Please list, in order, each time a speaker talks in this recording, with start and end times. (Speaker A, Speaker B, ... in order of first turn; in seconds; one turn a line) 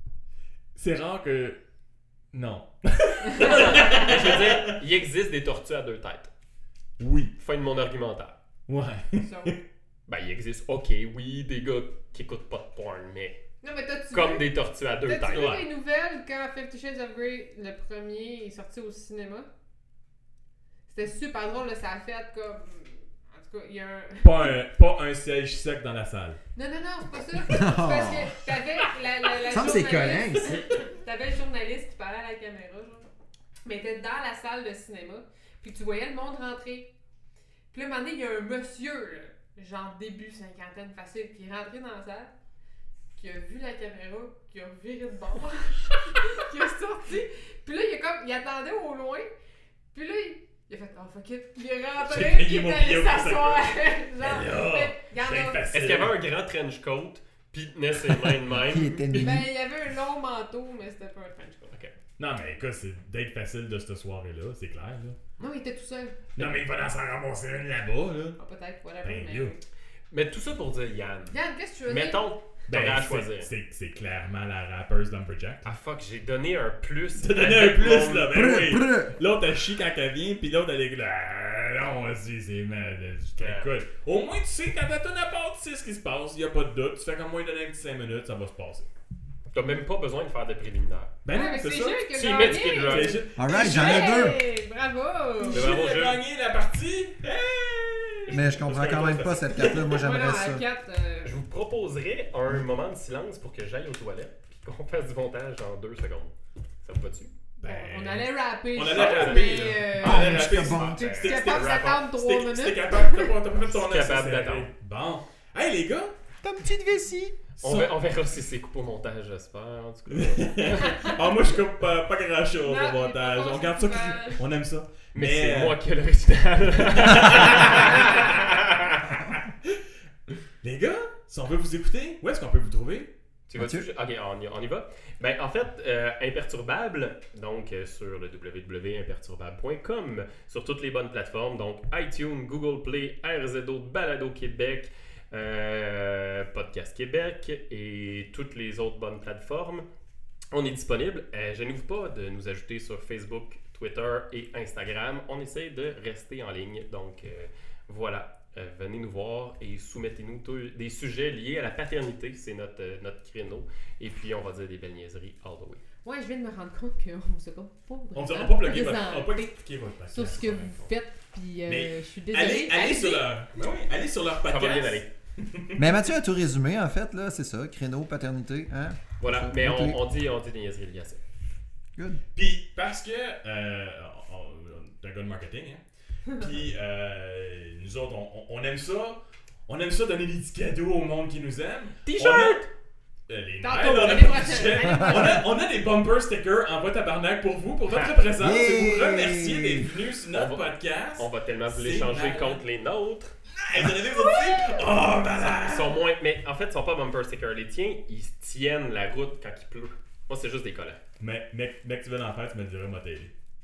Speaker A: 0.8-1.6
Speaker A: 2.3-4.8
Speaker B: 3.3-3.7
Speaker C: 3.4-6.3
Speaker A: 7.0-7.3
Speaker C: 7.4-8.4
Speaker A: 8.7-9.6
Speaker B: 9.2-9.6
Speaker C: 10.1-13.4
Speaker B: 13.6-19.5
Speaker C: 14.1-15.6
Speaker A: 15.2-15.7
Speaker B: 20.9-24.6
Speaker A: 24.2-26.4
Speaker B: 26.6-33.1
Speaker D: 27.4-28.3
Speaker D: 29.4-30.6
Speaker B: 33.6-36.9
Speaker B: 37.7-42.3
Speaker B: 43.1-49.3
Speaker B: 49.9-55.7
Speaker A: 52.0-56.2
Speaker C: 55.7-59.4
Speaker D: 58.6-59.5
Speaker B: 59.1-61.8
Speaker A: 62.2-65.2
Speaker B: 65.4-66.2
Speaker A: 66.4-68.4
Speaker B: 68.4-69.6
Speaker A: 69.0-69.5
Speaker C: 70.1-71.3
Speaker B: 71.3-72.3
Speaker C: 71.9-73.5
Speaker A: 72.7-75.7
Speaker C: 75.7-78.3
Speaker A: 77.2-88.9
Speaker D: 78.3-79.2
Speaker C: 83.4-83.7
Speaker C: 89.5-91.2
Speaker A: 91.2-94.3
Speaker B: 91.3-95.6
Speaker C: 92.1-93.2
Speaker D: 93.3-94.4
Speaker A: 95.5-100.1
Speaker C: 95.5-96.2
Speaker C: 98.3-98.5
Speaker D: 98.3-100.7
Speaker B: 99.9-101.4
Speaker C: 101.2-106.3
Speaker C: 106.8-107.3
Speaker B: 107.6-110.5
Speaker A: 107.6-116.2
Speaker C: 108.9-109.7
Speaker D: 110.0-111.2
Speaker C: 110.3-112.0
Speaker B: 111.2-113.4
Speaker C: 113.6-114.7
Speaker D: 116.4-117.3
Speaker A: 117.6-118.0
Speaker C: 117.6-121.1
Speaker A: 120.1-125.8
Speaker B: 122.6-124.5
Speaker C: 125.1-129.1
Speaker A: 126.9-128.3
Speaker A: 130.6-133.1
Speaker C: 133.5-149.9
Speaker D: 133.6-133.9
Speaker C: 150.5-165.8
Speaker B: 166.0-173.3
Speaker A: 168.1-170.9
Speaker A: 171.7-175.9
Speaker C: 174.4-175.1
Speaker D: 175.8-180.0
Speaker C: 179.2-181.2
Speaker D: 182.0-182.2
Speaker A: 182.3-192.7
Speaker C: 192.1-192.7
Speaker A: 193.3-202.6
Speaker B: 193.6-195.5
Speaker D: 195.0-195.4
Speaker C: 197.9-198.2
Speaker D: 198.4-199.9
Speaker C: 200.3-203.3
Speaker A: 203.6-206.0
Speaker B: 204.1-204.9
Speaker C: 205.6-211.0
Speaker A: 211.2-213.3